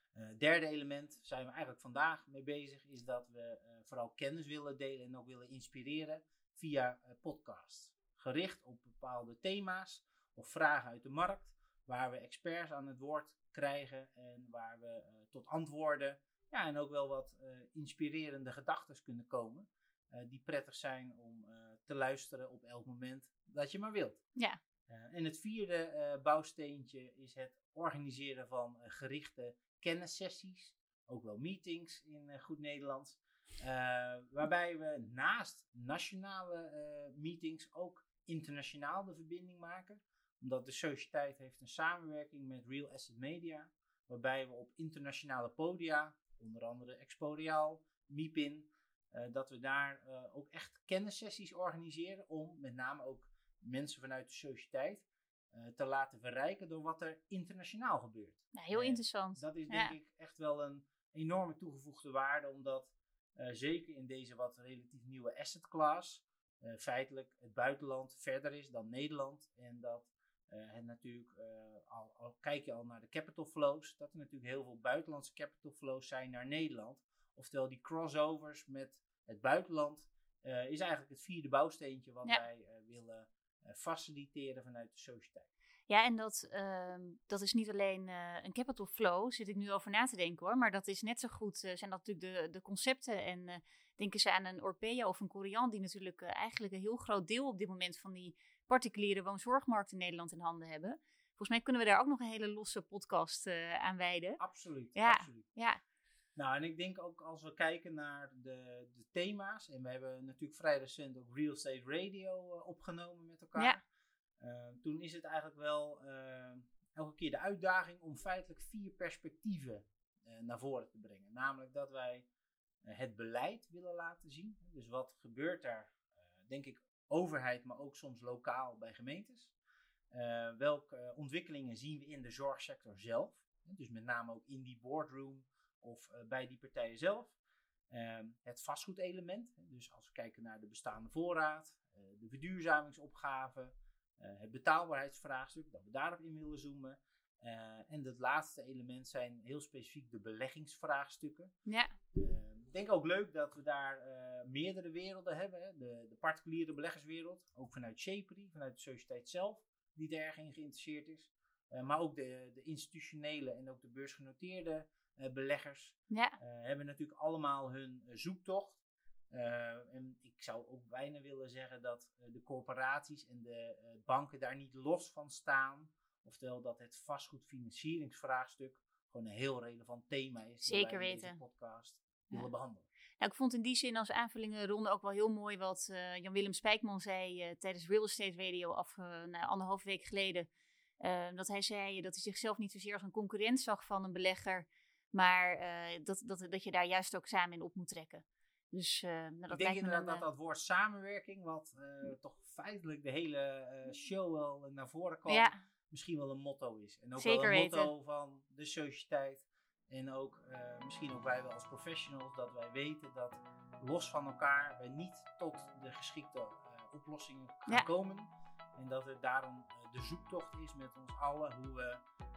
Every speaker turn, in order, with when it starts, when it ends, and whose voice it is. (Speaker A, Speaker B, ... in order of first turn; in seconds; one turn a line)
Speaker A: 0.1-24.2
Speaker A: 24.9-85.5
Speaker B: 58.5-59.9
Speaker B: 85.9-104.4
Speaker A: 104.4-105.5
Speaker B: 105.0-105.8
Speaker A: 106.4-113.8
Speaker A: 114.4-122.3
Speaker A: 122.8-129.6
Speaker A: 130.1-137.4
Speaker A: 137.9-151.5
Speaker B: 151.7-151.9
Speaker A: 152.1-182.9
Speaker B: 166.1-166.4
Speaker B: 180.6-181.4
Speaker B: 183.2-190.5
Speaker B: 191.0-200.2
Speaker A: 199.5-222.0
Speaker B: 205.3-205.6
Speaker B: 207.2-207.9